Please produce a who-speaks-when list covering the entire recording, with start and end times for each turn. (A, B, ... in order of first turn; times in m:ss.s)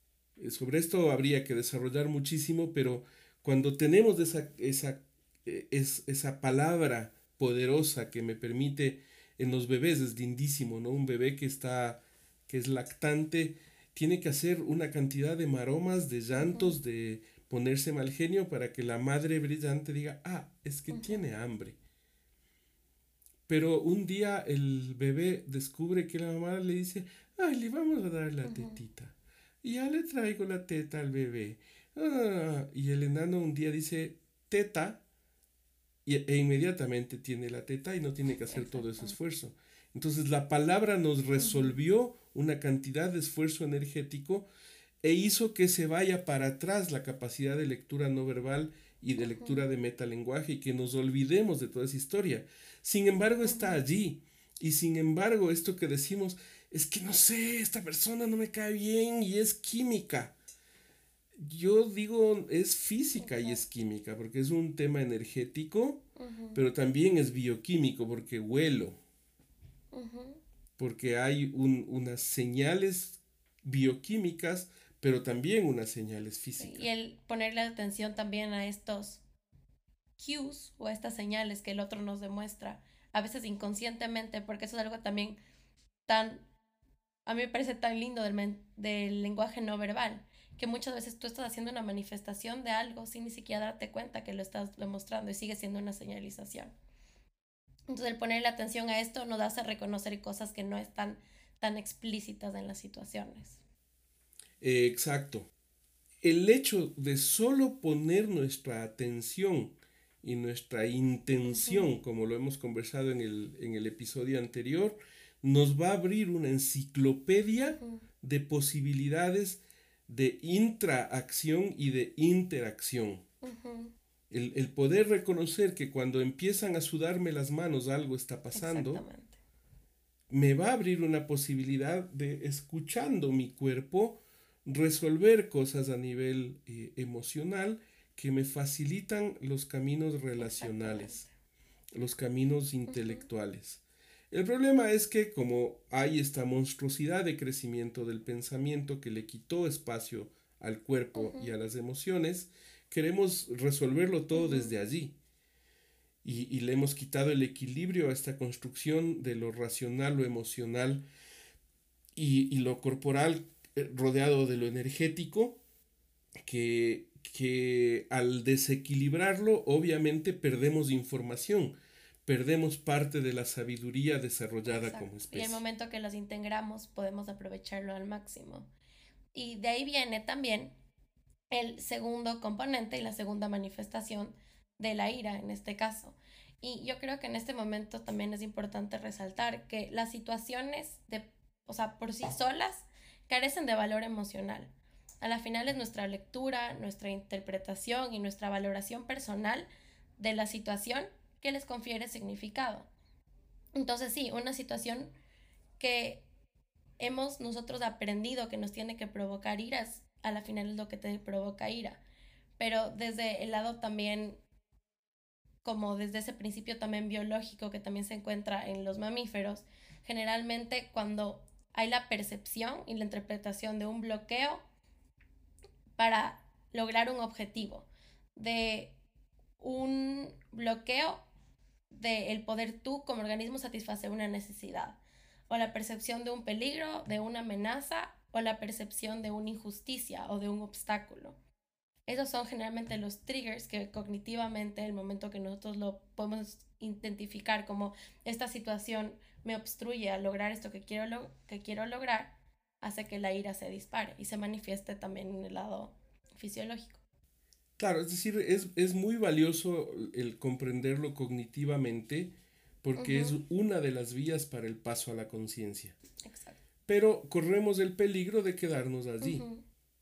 0:00.4-0:21.8 A
0:16.3-0:16.8 B
0:20.9-0:21.2 B
0:23.5-0:35.0 A
0:28.4-0:28.8 B
0:36.0-0:44.5 A
0:38.4-0:39.2 B
0:41.4-0:41.8 B
0:45.0-1:00.4 A
0:49.2-0:49.7 B
0:53.4-0:53.8 B
1:01.4-1:09.0 A
1:03.2-1:03.6 B
1:06.2-1:06.6 B
1:09.9-1:10.4 B
1:10.8-1:16.9 A
1:16.6-1:19.2 B
1:20.2-1:25.4 B
1:26.1-1:26.4 B
1:27.3-1:36.7 B
1:37.9-1:43.6 B
1:44.6-1:45.5 A
1:46.2-2:03.2 A
1:51.4-1:52.0 B
1:57.6-1:58.0 B
2:03.4-2:03.9 B
2:04.3-2:09.0 A
2:08.5-2:09.4 B
2:10.3-2:21.2 A
2:20.4-2:21.3 B
2:22.0-2:35.2 A
2:22.9-2:23.3 B
2:31.2-2:31.5 B
2:34.3-2:34.7 B
2:36.2-2:41.0 A
2:42.2-2:45.6 A
2:46.4-2:51.8 A
2:52.3-2:55.6 A
2:54.7-2:58.7 B
2:59.3-3:00.8 B
3:01.5-3:22.9 B
3:23.8-3:25.1 B
3:25.8-3:26.3 B
3:27.0-3:32.0 B
3:32.6-3:34.4 B
3:35.6-3:44.6 B
3:46.0-3:49.0 B
3:49.6-3:51.2 B
3:51.9-4:01.4 B
4:02.1-4:17.0 B
4:17.8-4:26.0 A
4:23.0-4:23.4 B
4:26.2-4:26.6 B
4:26.9-4:29.4 A
4:29.2-4:29.6 B